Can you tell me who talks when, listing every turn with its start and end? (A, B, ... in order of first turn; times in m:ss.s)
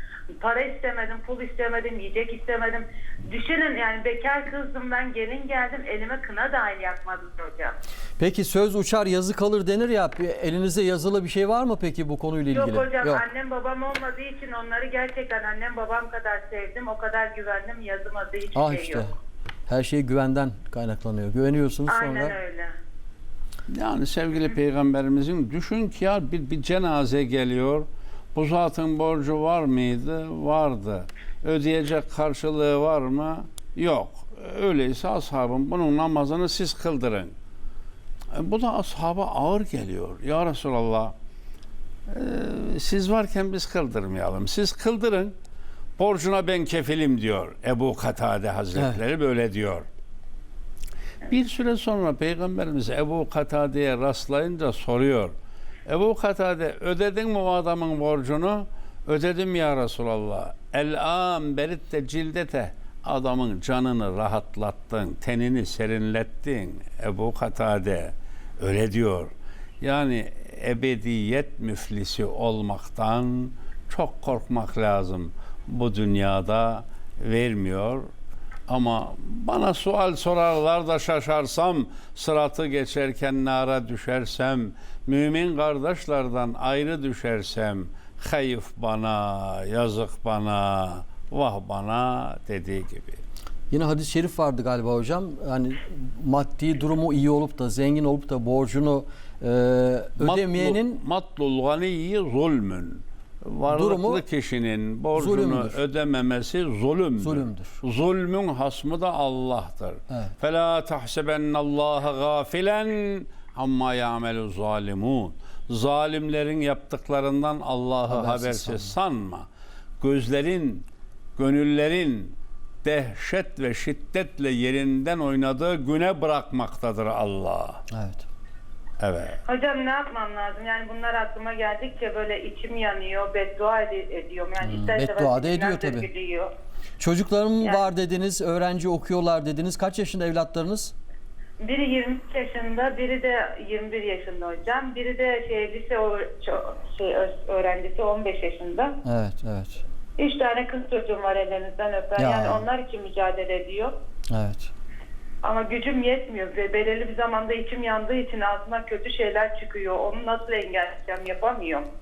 0:00.4-0:07.8 A
0:08.2-0:13.2 B
0:12.5-0:19.1 A
0:18.6-0:19.1 B
0:19.7-0:22.4 B
0:21.9-0:22.7 A
0:23.7-0:37.3 C
0:38.3-0:41.1 C
0:42.1-0:45.3 C
0:46.0-0:49.9 C
0:48.8-0:49.0 B
0:51.3-0:55.3 C
0:55.9-1:18.1 C
1:18.7-1:33.2 C
1:33.7-1:41.0 B
1:40.2-1:59.5 C
1:43.7-1:44.2 B
1:45.2-1:45.8 B
1:47.2-1:47.8 B
1:58.1-1:58.9 B
2:00.0-2:07.8 C
2:07.9-2:08.3 B
2:09.0-2:09.4 C
2:09.5-2:16.5 A
2:14.6-2:16.1 B
2:17.0-2:20.9 B
2:21.6-2:29.0 A
2:29.0-2:29.8 B
2:30.2-2:33.9 A
2:32.2-2:32.6 B
2:34.3-2:34.7 B
2:35.4-2:41.9 A